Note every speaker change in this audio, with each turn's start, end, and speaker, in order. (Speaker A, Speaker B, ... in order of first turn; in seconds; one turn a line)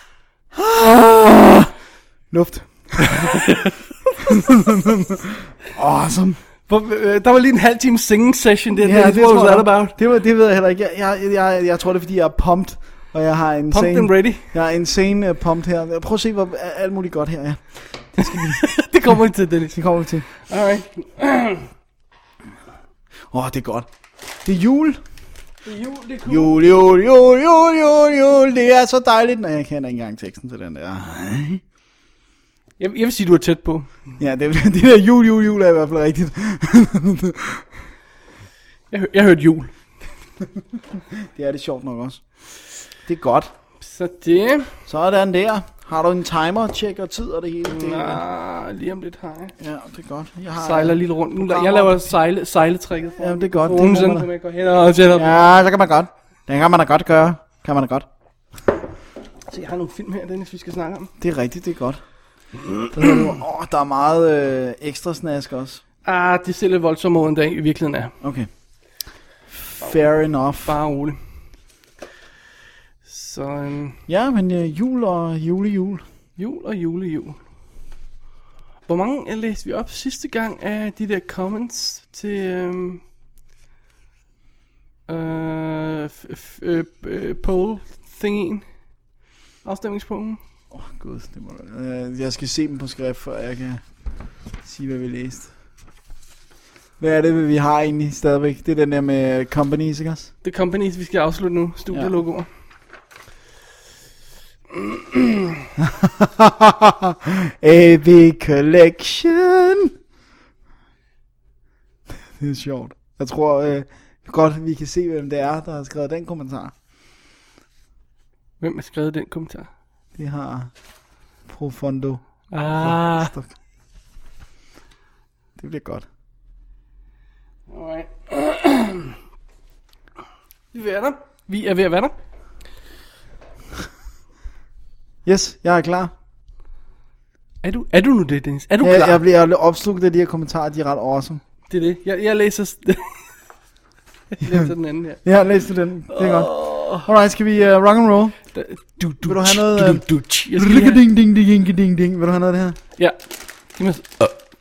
Speaker A: 0.6-1.7
Speaker A: 2.3-3.4
Speaker B: 3.1-4.3
Speaker A: 4.3-6.4
Speaker B: 6.7-9.9
Speaker A: 8.8-18.6
Speaker B: 13.7-14.5
Speaker B: 18.2-21.7
Speaker A: 19.7-20.2
Speaker A: 23.3-23.9
Speaker A: 24.4-25.0
Speaker B: 25.6-26.6
Speaker A: 26.3-31.6
Speaker B: 32.8-33.9
Speaker A: 34.2-37.7
Speaker B: 38.9-39.7
Speaker A: 41.2-42.2
Speaker A: 43.0-43.5
Speaker B: 43.8-44.7
Speaker A: 44.9-48.2
Speaker B: 47.7-49.5
Speaker A: 49.6-52.1
Speaker B: 50.6-55.5
Speaker A: 53.2-54.3
Speaker A: 55.2-58.1
Speaker B: 59.5-61.1
Speaker A: 61.2-62.0
Speaker A: 62.9-65.8
Speaker B: 66.0-68.2
Speaker A: 68.2-68.5
Speaker A: 69.5-70.8
Speaker B: 70.7-71.2
Speaker B: 73.0-74.0
Speaker A: 74.1-76.0
Speaker B: 76.4-77.4
Speaker B: 78.9-83.0
Speaker B: 85.1-88.7
Speaker B: 89.6-90.4
Speaker A: 90.7-93.8
Speaker A: 94.6-95.5
Speaker A: 97.0-100.3
Speaker B: 100.4-102.5
Speaker B: 105.0-105.4
Speaker A: 105.8-109.9
Speaker A: 112.3-116.7
Speaker B: 118.6-119.7
Speaker A: 120.2-120.7
Speaker A: 121.5-122.2
Speaker B: 122.5-123.3
Speaker A: 122.8-123.5
Speaker A: 125.6-126.1
Speaker B: 127.7-129.2
Speaker B: 130.7-132.1
Speaker A: 135.2-136.1
Speaker B: 137.6-139.2
Speaker A: 138.8-141.4
Speaker B: 141.7-143.3
Speaker B: 144.3-145.2
Speaker A: 145.2-148.3
Speaker B: 146.1-147.1
Speaker B: 148.5-151.0
Speaker A: 149.2-152.8
Speaker B: 153.8-154.3